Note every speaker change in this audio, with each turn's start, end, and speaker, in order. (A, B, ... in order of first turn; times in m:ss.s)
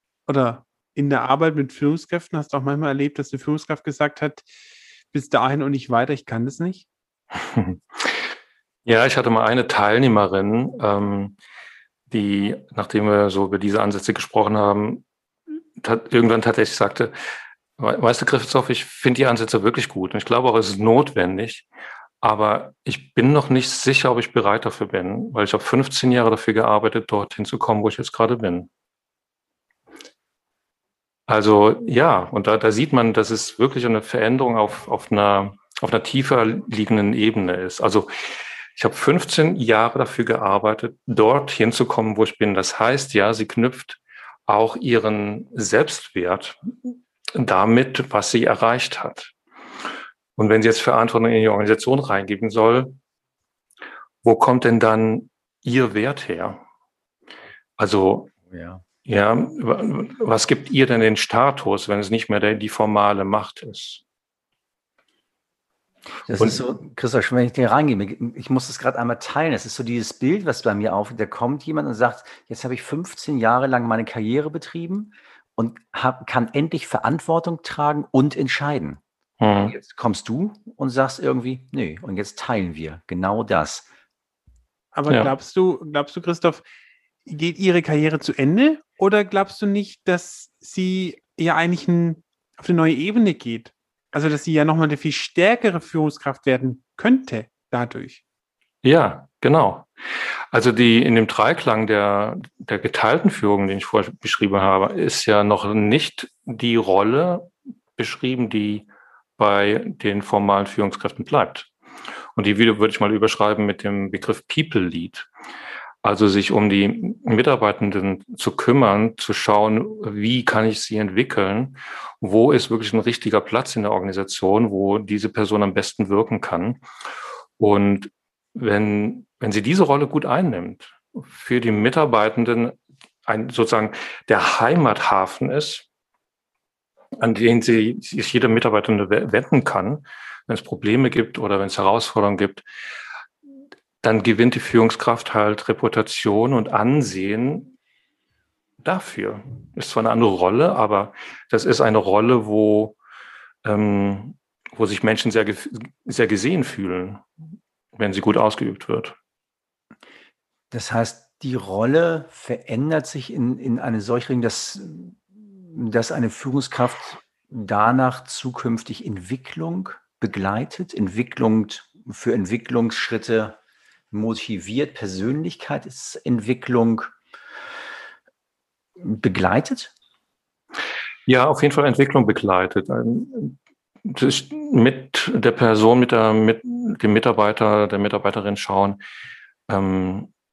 0:00.3-0:04.5 A
0:05.1-0:06.8 A
0:07.4-0:08.2 B
0:08.8-0:11.4 B
0:12.1-0:15.0 B
0:15.8-0:17.1 B
0:17.8-0:21.7 B
0:22.2-0:28.7 B
0:31.3-0:49.3 B
0:50.4-0:53.0 B
0:54.2-0:56.6 B
0:57.8-0:58.3 B
0:58.5-0:58.8 C
0:59.0-1:04.0 B
1:06.2-1:19.0 C
1:19.4-1:19.8 B
1:19.6-1:23.8 C
1:24.9-1:26.6 A
1:25.1-1:25.3 B
1:27.2-1:38.2 A
1:38.8-1:39.9 B
1:40.5-1:48.9 B
1:49.4-1:51.7 B
1:52.3-1:55.3 B
1:56.0-2:06.8 B
2:07.6-2:15.8 B
2:17.2-2:22.6 B
2:24.0-2:27.7 B
2:28.8-2:33.0 B
2:33.6-2:37.2 B
2:38.0-2:39.2 B
2:40.7-2:53.6 C
2:54.1-2:57.1 C
2:59.0-2:59.9 C
3:01.3-3:09.0 B
3:09.7-3:10.3 B